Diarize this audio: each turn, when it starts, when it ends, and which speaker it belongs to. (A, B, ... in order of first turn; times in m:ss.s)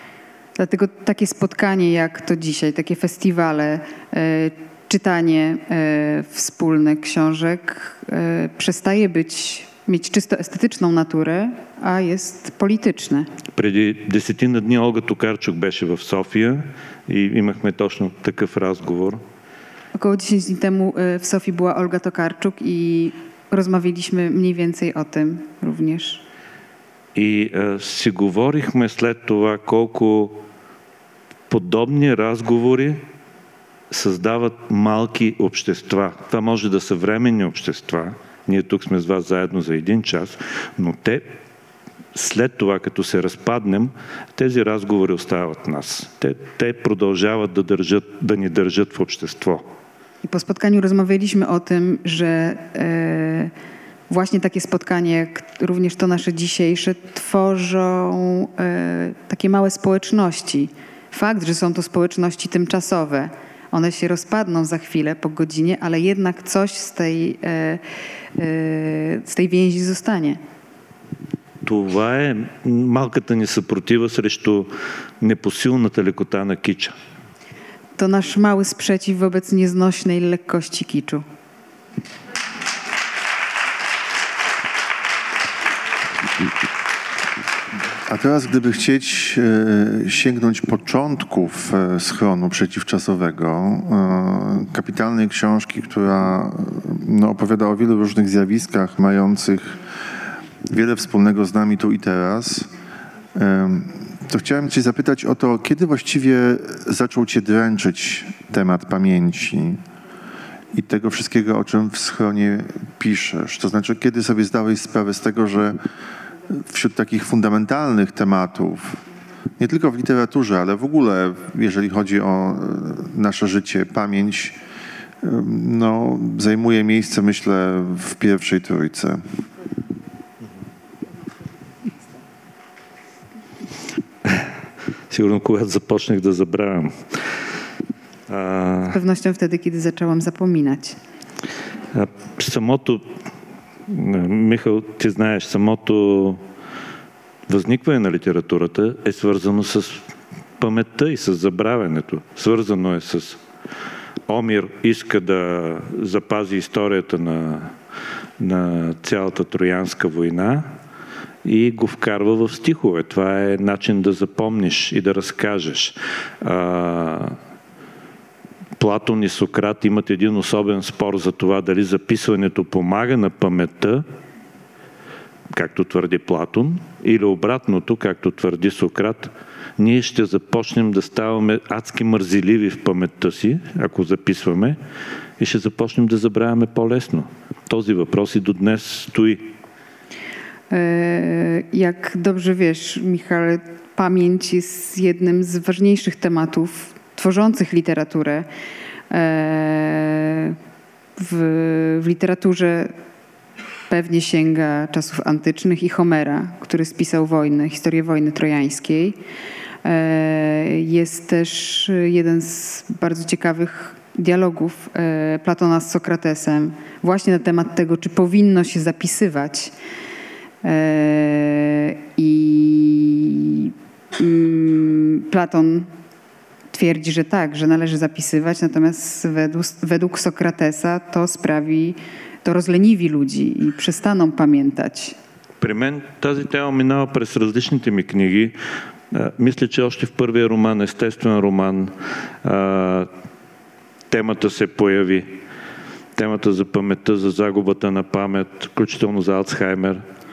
0:00.6-0:13.3 A
0:13.6-0:19.2 B
0:19.9-0:26.2 A
0:27.1-0:30.4 B
0:31.5-0:33.0 B
0:33.9-0:41.3 B
0:42.1-0:49.6 B
0:50.2-0:53.5 A
0:54.1-1:07.8 A
1:08.4-1:10.4 A
1:11.6-1:16.9 B
1:18.0-1:21.2 A
1:28.0-1:39.8 C
1:40.6-1:42.7 C
1:43.3-1:49.8 C
1:50.7-1:55.8 C
1:56.5-1:59.0 C
1:59.6-2:04.6 C
2:05.2-2:09.2 C
2:14.2-2:14.5 B
2:15.1-2:17.4 B
2:18.3-2:19.0 B
2:18.9-2:21.0 A
2:21.9-2:23.1 B
2:23.9-2:26.4 B
2:27.5-2:30.0 B
2:30.6-2:33.4 B
2:34.3-2:37.7 B
2:38.4-2:40.7 B
2:41.4-2:47.4 B
2:48.8-2:54.0 B
2:55.5-3:04.8 B
3:05.4-3:09.5 B
3:10.7-3:18.5 A
3:19.1-3:20.6 A
3:21.2-3:22.9 A
3:23.9-3:29.2 A
3:29.8-3:39.7 A
3:40.6-3:45.9 A
3:46.7-3:55.2 A
3:55.6-3:58.5 B
3:59.1-4:03.1 B
4:04.1-4:05.4 B
4:06.2-4:10.0 B